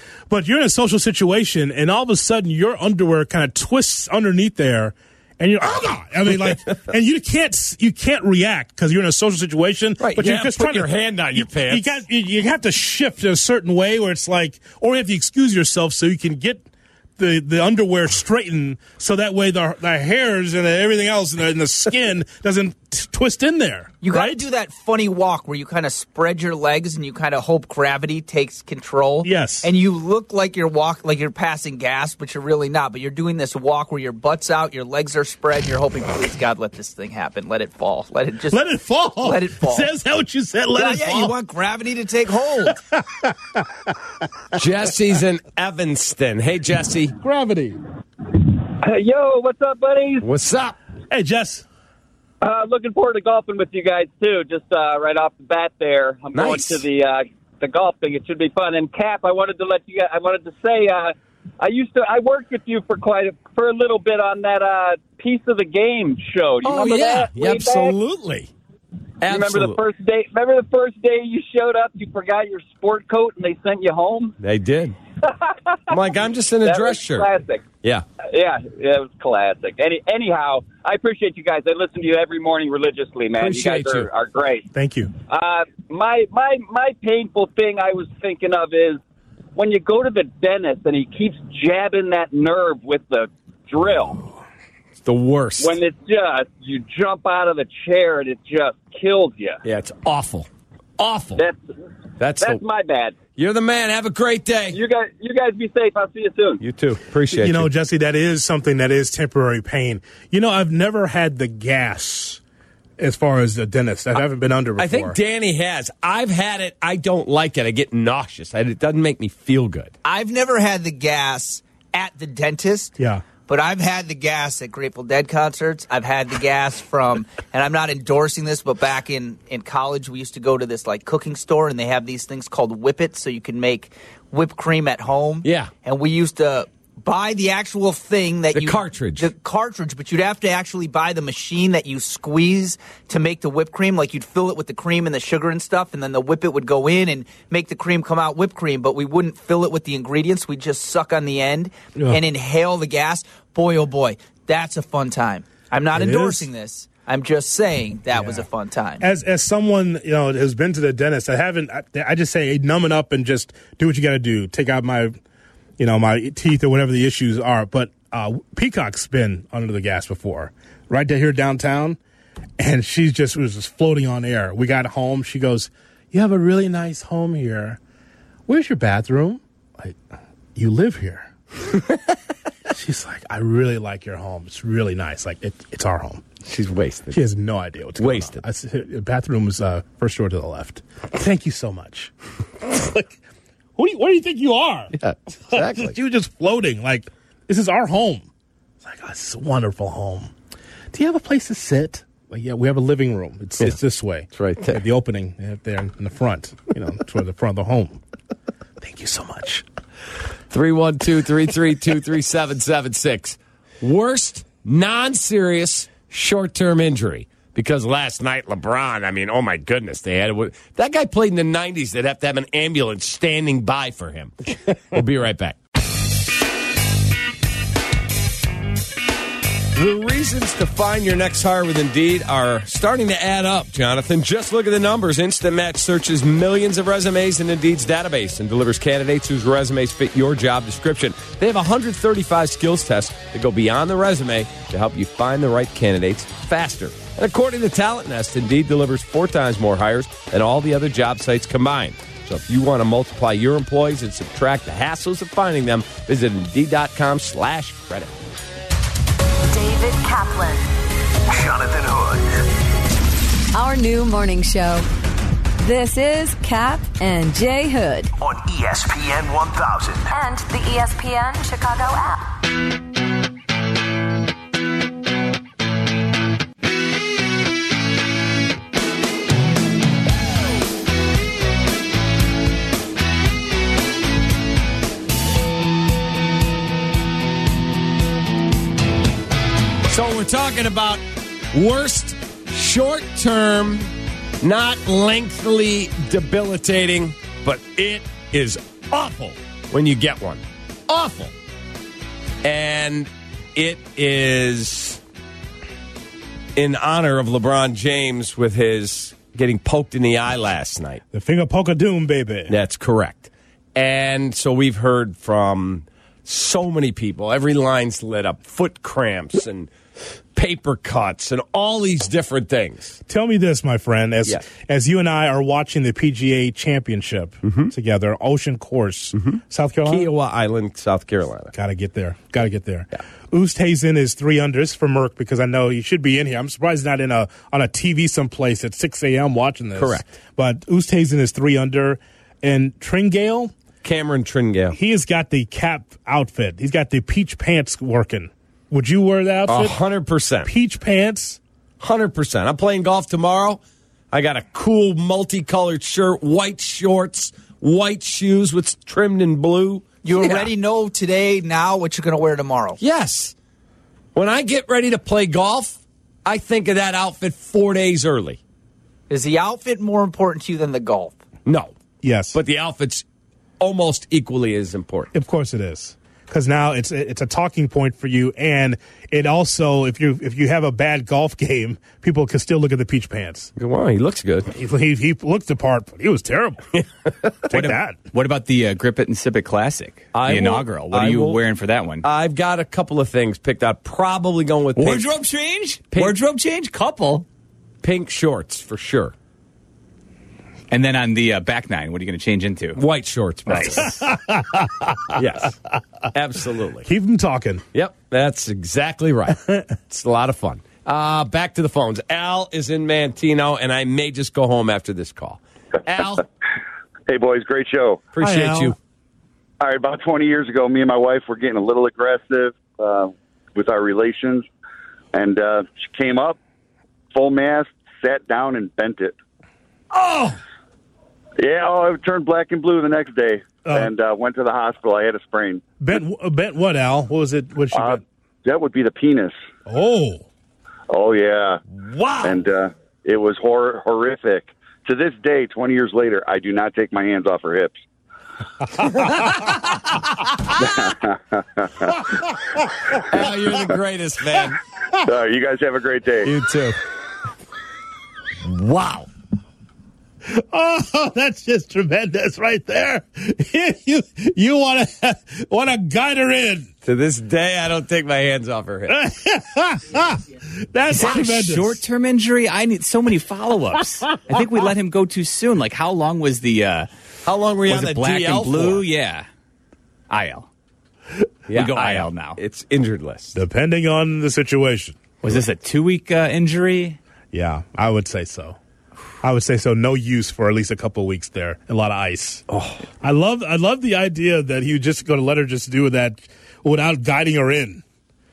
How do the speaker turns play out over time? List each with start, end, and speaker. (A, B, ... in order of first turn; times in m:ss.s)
0:00.3-0:16.6 A
0:10.0-0:12.0 B
0:17.2-0:24.4 A
0:24.0-0:38.6 C
0:29.2-0:29.7 A
0:38.5-0:41.3 A
0:39.2-0:39.9 C
0:40.7-0:42.8 C
0:42.9-0:43.6 A
0:44.5-0:47.1 B
0:47.2-0:47.8 A
0:48.8-0:50.2 D
0:50.2-0:50.8 B
0:51.1-0:51.6 A
0:52.4-1:07.9 D
0:56.3-0:56.8 B
1:06.6-1:08.5 B
1:09.2-1:09.8 B
1:09.2-1:14.3 D
1:14.4-1:15.0 B
1:15.3-1:16.0 D
1:15.9-1:17.3 B
1:16.6-1:17.6 D
1:18.2-1:24.7 D
1:23.4-1:24.1 B
1:24.7-1:25.1 A
1:25.3-1:29.0 D
1:29.6-1:34.2 D
1:35.0-1:35.8 B
1:35.6-1:39.6 D
1:39.6-1:41.4 B
1:42.2-1:42.6 B
1:42.4-1:43.2 D
1:43.4-1:44.8 B
1:44.7-1:46.6 D
1:46.6-1:47.7 B
1:47.3-1:52.4 A
1:53.0-1:55.2 A
1:54.8-1:59.9 B
2:00.0-2:39.0 C
2:03.0-2:03.2 A
2:15.4-2:15.7 B
2:18.5-2:19.3 B
2:35.9-2:36.5 A
2:38.1-2:38.4 A
2:39.0-2:45.2 A
2:45.8-2:52.0 A
2:52.6-2:57.8 A
2:58.5-3:00.0 A
3:00.5-3:01.3 A
3:02.7-3:06.3 A
3:06.4-3:07.2 B
3:07.1-3:13.1 A
3:08.0-3:08.4 B
3:13.8-3:14.9 A
3:14.9-3:15.9 B
3:15.5-3:18.3 A
3:18.8-3:20.3 A
3:20.9-3:28.0 A
3:24.3-3:24.8 B
3:28.8-3:29.6 A
3:30.5-3:45.6 B
3:49.7-4:18.1 B
4:19.5-4:20.7 E
4:21.3-4:22.4 F
4:23.5-4:24.8 E
4:25.6-4:28.1 E
4:28.2-4:30.1 F
4:30.1-4:32.3 E
4:49.9-5:01.3 B
5:02.4-5:05.0 B
5:06.6-5:11.0 B
5:11.1-5:12.6 A
5:12.5-5:19.7 B
5:20.3-5:23.0 B
5:23.1-5:30.1 A
5:27.4-5:27.7 B
5:29.1-5:31.5 B
5:31.5-5:43.5 A
5:39.8-5:40.1 B
5:43.8-5:44.8 B
5:44.7-5:49.8 A
5:49.4-5:50.5 B
5:50.4-5:51.4 A
5:51.8-5:53.6 B
5:54.1-6:00.5 B
6:00.0-6:02.8 C
6:02.8-6:03.3 B
6:04.1-6:08.4 B
6:09.1-6:11.2 C
6:11.4-6:11.7 B
6:12.0-6:12.4 A
6:12.3-6:13.0 B
6:13.6-6:15.1 B
6:15.1-6:23.5 A
6:23.6-6:24.5 B
6:24.5-6:26.8 A
6:27.5-6:28.0 A
6:27.5-6:32.0 G
6:30.1-6:31.4 B
6:32.0-6:35.1 B
6:34.8-6:37.2 G
6:35.9-6:36.2 B
6:37.8-6:39.1 B
6:40.7-6:42.8 G
6:42.8-6:43.9 B
6:43.5-6:43.9 G
6:43.8-6:45.2 A
6:45.1-6:45.5 B
6:46.1-6:46.9 B
6:46.8-6:47.6 A
6:47.7-6:56.2 B
6:57.1-6:58.1 H
6:58.1-6:58.8 B
6:58.2-6:58.7 A
6:59.6-7:04.4 H
7:05.1-7:06.4 H
7:07.1-7:09.2 H
7:09.9-7:10.4 B
7:11.4-7:15.6 H
7:13.7-7:13.9 A
7:15.8-7:18.0 A
7:17.7-7:19.4 H
7:19.7-7:20.2 A
7:20.9-7:21.6 H
7:21.8-7:22.4 B
7:22.2-7:27.8 H
7:30.6-7:31.7 H
7:33.1-7:34.6 B
7:35.0-7:36.3 H
7:36.2-7:36.8 B
7:38.4-7:39.1 B
7:40.3-7:46.7 A
7:46.8-7:49.0 B
7:48.9-7:51.8 A
7:50.9-7:56.9 G
7:57.2-7:58.8 B
7:57.7-7:59.2 G
8:00.1-8:00.5 G
8:01.5-8:03.4 B
8:01.5-8:02.4 G
8:03.3-8:05.0 A
8:05.2-8:07.0 G
8:07.3-8:08.6 A
8:09.2-8:12.4 A
8:12.5-8:12.8 B
8:13.0-8:17.8 A